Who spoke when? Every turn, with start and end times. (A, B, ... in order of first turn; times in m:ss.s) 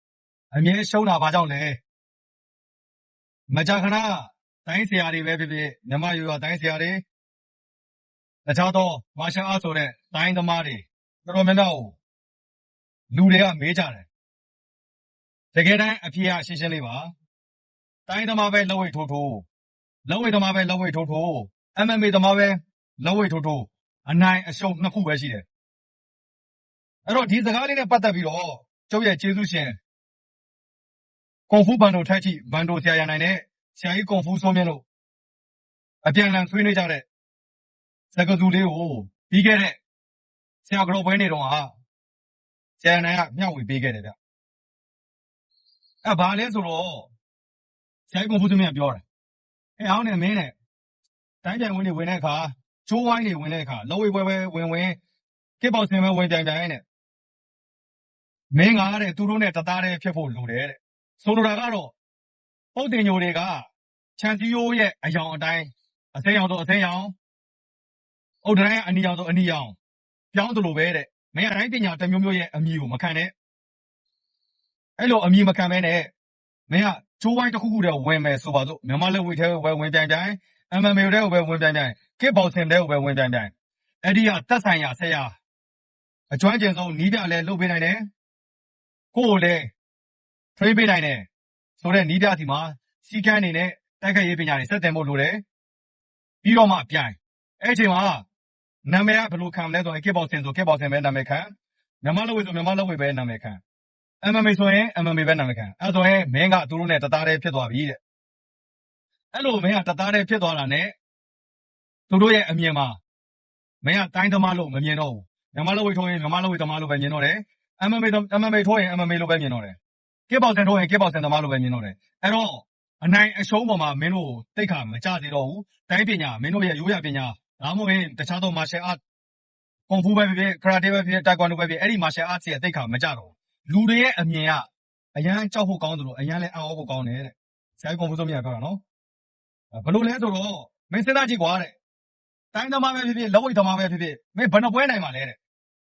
0:00.5-0:01.8 A
0:03.5-0:07.0 A
0:08.4-0:12.0 A
0:13.1-0:14.1 A
0:15.5-0:17.1 A
0:18.1-0:19.4 A
0:20.1-0:25.4 A
0:27.0-0:29.7 A
0:31.5-0:34.8 A
0:36.0-0:37.0 A
0:38.1-0:39.8 A
0:40.6-0:41.7 A
0:42.8-0:44.2 A
0:46.0-0:47.1 A
0:48.1-0:49.0 A
0:49.8-0:50.5 A
0:51.4-0:55.0 A
0:55.6-0:56.8 A
0:58.5-1:01.9 A
1:02.7-1:03.6 A
1:04.2-1:07.1 A
1:08.4-1:09.8 A
1:10.3-1:13.3 A
1:15.0-1:16.1 A
1:16.7-1:23.5 A
1:24.0-1:25.3 A
1:26.3-1:28.0 A
1:29.1-1:29.6 A
1:30.6-1:31.2 A
1:31.8-1:35.4 A
1:36.4-1:38.2 A
1:38.8-1:41.5 A
1:42.0-1:43.6 A
1:44.2-1:48.0 A
1:49.3-1:50.9 A
1:52.1-1:53.0 A
1:53.8-1:59.8 A
2:00.3-2:09.0 A
2:09.9-2:18.8 A
2:19.7-2:21.7 A
2:22.5-2:25.4 A